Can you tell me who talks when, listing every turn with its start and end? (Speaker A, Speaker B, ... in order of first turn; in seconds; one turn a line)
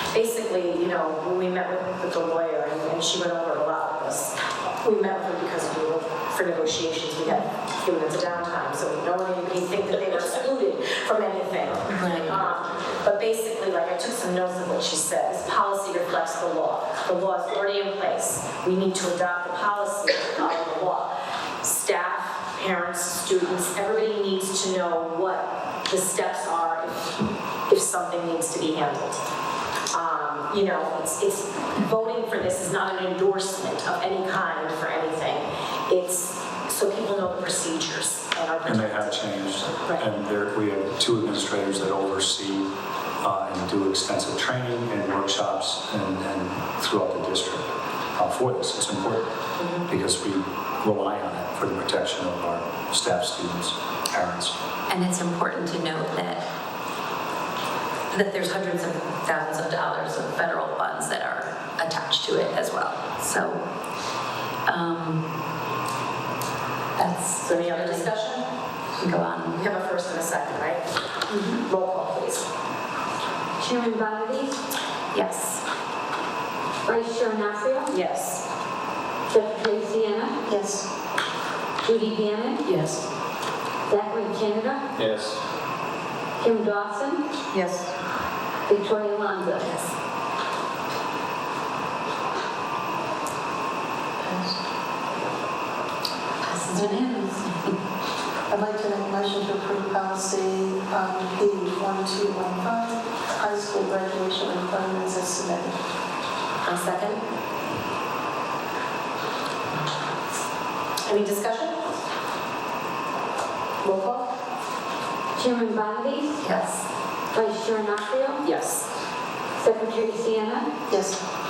Speaker A: 0.1-27.1
Speaker B: 11.8-12.4
Speaker A: 27.7-29.2
Speaker A: 29.9-40.0
Speaker C: 38.6-49.3
Speaker A: 49.6-49.8
Speaker C: 49.9-54.5
Speaker B: 54.9-56.4
Speaker B: 58.1-63.6
Speaker B: 64.7-65.2
Speaker B: 67.0-68.1
Speaker A: 67.5-68.5
Speaker B: 69.0-69.6
Speaker A: 69.5-70.9
Speaker B: 71.3-71.6
Speaker A: 71.6-72.5
Speaker D: 73.6-74.6
Speaker B: 75.1-75.6
Speaker D: 76.8-77.9
Speaker A: 77.9-78.5
Speaker D: 79.3-80.4
Speaker E: 80.5-80.9
Speaker D: 81.8-82.6
Speaker B: 82.7-83.0
Speaker D: 83.9-84.8
Speaker C: 85.0-85.4
Speaker D: 86.4-87.2
Speaker D: 88.7-89.7
Speaker B: 89.6-89.9
Speaker B: 96.4-97.7
Speaker E: 98.5-105.8
Speaker B: 106.7-107.2
Speaker A: 111.0-111.8
Speaker A: 113.8-114.3
Speaker D: 115.3-116.4
Speaker B: 116.4-116.8
Speaker D: 117.3-118.4
Speaker A: 118.4-118.8
Speaker D: 119.6-120.7
Speaker E: 120.9-121.2